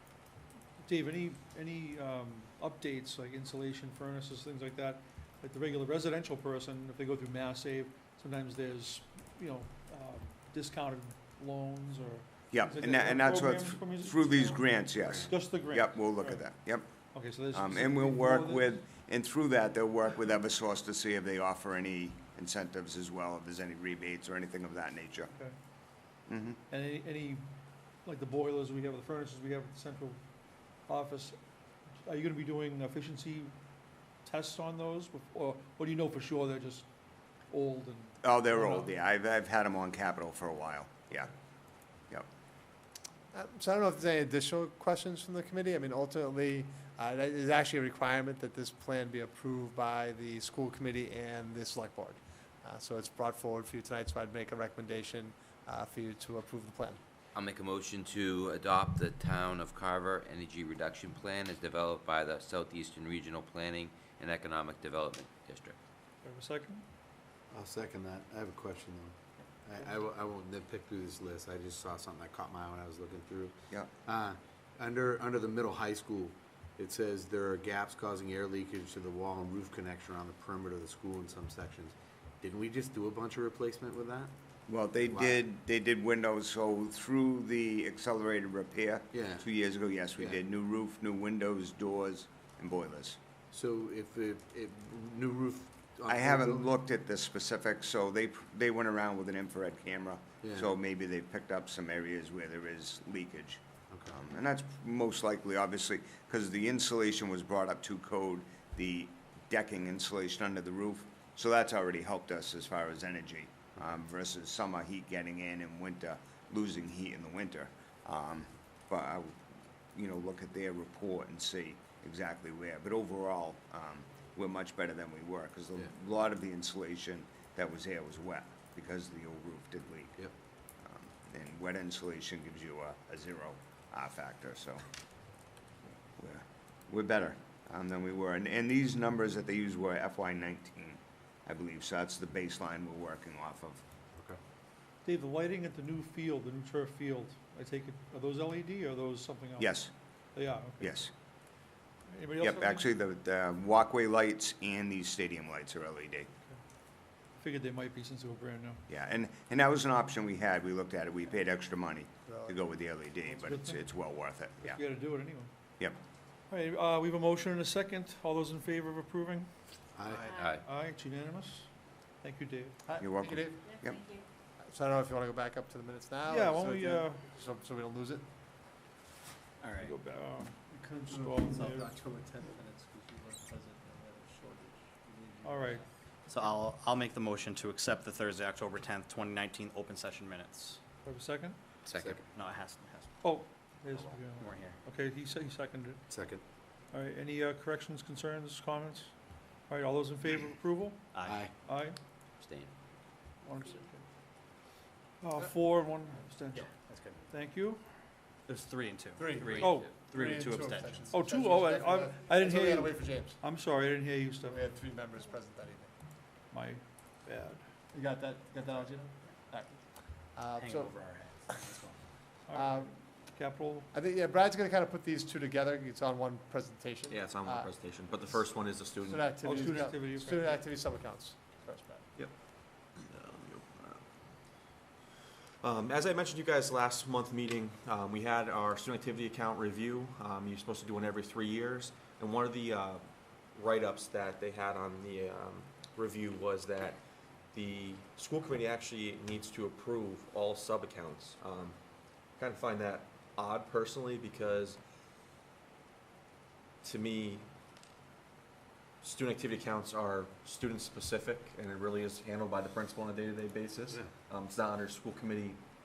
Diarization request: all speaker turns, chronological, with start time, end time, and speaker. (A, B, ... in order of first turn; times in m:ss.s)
0:00.8-0:16.5 A
0:12.5-0:16.9 B
0:15.0-0:15.3 C
0:17.1-0:18.9 A
0:17.5-0:25.3 B
0:26.3-0:26.6 B
0:26.7-0:27.4 A
0:28.0-0:30.2 A
0:30.9-0:31.4 A
0:32.0-0:33.5 A
0:34.2-0:36.9 A
0:37.5-0:38.9 A
0:38.2-0:41.3 B
0:43.3-0:57.0 D
0:57.4-1:05.8 E
1:06.2-1:06.8 A
1:07.5-1:24.3 C
1:24.7-1:33.2 B
1:25.1-1:25.4 C
1:29.1-1:29.5 C
1:33.5-1:36.7 C
1:36.1-1:59.4 B
1:40.4-1:40.7 C
1:43.9-1:44.2 C
2:00.0-2:10.2 B
2:10.8-2:14.8 B
2:16.2-2:23.8 B
2:25.0-2:31.0 A
2:29.6-2:29.9 B
2:30.8-2:31.1 B
2:32.1-2:32.9 A
2:32.4-2:36.3 B
2:37.4-2:38.8 A
2:38.9-2:44.8 B
2:42.3-2:42.6 D
2:43.4-2:43.8 A
2:44.6-2:45.5 A
2:46.5-2:49.5 A
2:50.0-2:50.4 C
2:50.3-2:50.6 E
2:50.5-2:51.7 A
2:52.2-2:52.8 A
2:52.8-2:53.7 D
2:53.0-2:54.0 B
2:54.6-2:58.2 D
2:56.3-2:57.4 A
2:59.6-3:00.0 F
2:59.8-3:01.9 A
3:00.7-3:05.8 D
3:05.4-3:05.8 A
3:06.3-3:10.8 F
3:11.0-3:11.6 A
3:11.9-3:13.2 F
3:11.9-3:12.2 C
3:13.2-3:16.0 A
3:13.9-3:14.8 F
3:16.1-3:16.4 C
3:16.9-3:19.1 A
3:19.7-3:22.0 A
3:21.1-3:21.5 F
3:21.2-3:21.5 C
3:22.4-3:22.7 E
3:23.4-3:24.0 A
3:25.2-3:26.8 A
3:26.5-3:27.3 F
3:27.3-3:27.8 A
3:28.5-3:31.1 F
3:29.2-3:33.4 D
3:29.6-3:30.0 A
3:31.1-3:34.6 A
3:34.4-3:35.9 D
3:36.5-3:37.6 A
3:37.9-3:39.8 D
3:40.3-3:40.9 D
3:40.6-3:42.0 F
3:42.5-3:43.9 A
3:42.5-3:42.9 D
3:43.9-3:47.7 D
3:47.1-3:49.3 G
3:49.0-3:52.0 D
3:49.4-3:50.6 A
3:53.0-3:54.0 G
3:55.6-4:07.0 G
4:07.5-4:11.8 G
4:12.4-4:14.8 G
4:16.8-4:17.5 G
4:19.0-4:25.6 G